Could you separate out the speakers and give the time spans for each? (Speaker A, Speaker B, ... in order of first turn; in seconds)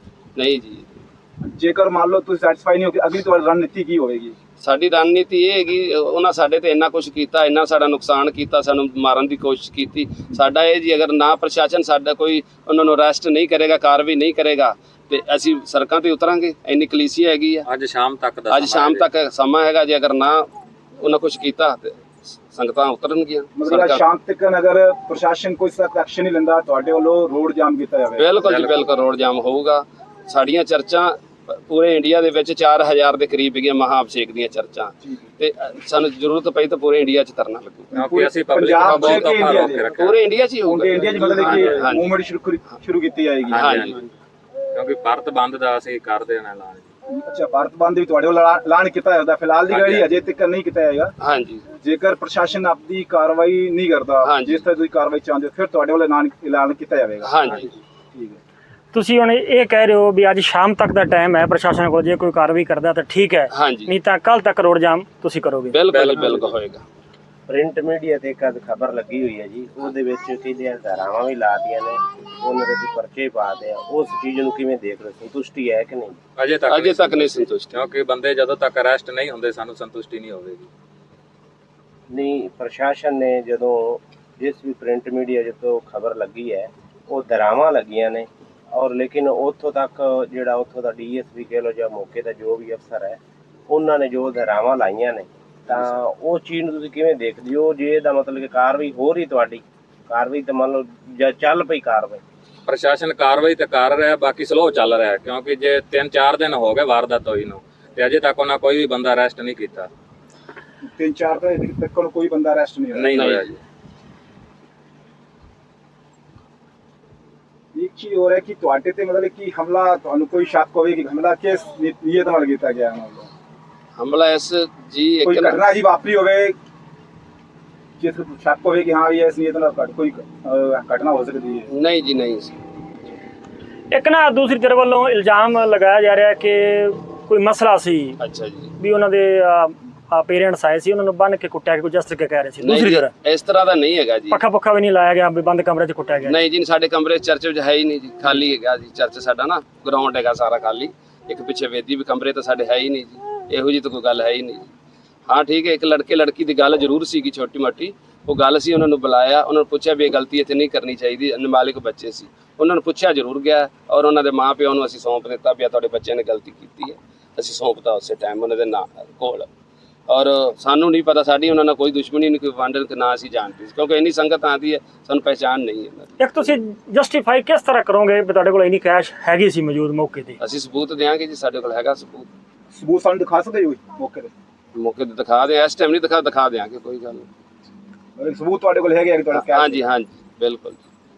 Speaker A: 0.3-0.9, 4.6-17.6, 18.5-20.5, 21.0-22.0, 22.5-24.0, 28.1-37.9, 38.8-39.3, 40.0-42.1, 43.5-44.0, 51.2-51.6, 54.2-54.6, 57.2-57.7, 63.5-63.9, 65.7-66.8, 76.7-77.8, 113.1-113.5, 124.0-125.6, 131.7-132.5, 138.2-138.7, 142.6-144.4, 146.2-154.7, 155.3-169.5, 170.1-176.2, 180.4-182.3, 184.7-187.3, 189.3-190.8
Speaker B: 1.4-4.3, 23.6-28.4, 37.9-39.9, 40.6-43.9, 47.1-51.1, 51.8-58.4, 110.8-113.3, 117.7-123.3, 125.2-126.6, 128.0-131.7, 182.7-184.3, 188.2-189.9
Speaker C: 17.6-19.0, 28.4-28.8, 37.9-40.2, 41.4-41.9, 43.5-43.9, 44.7-46.8, 49.7-50.1, 65.9-66.5, 76.4-80.7, 102.7-109.9, 112.9-113.5
Speaker D: 58.9-65.8, 133.9-138.2, 138.8-143.1, 144.3-146.4, 176.2-180.4
Speaker E: 67.5-76.2, 82.1-102.2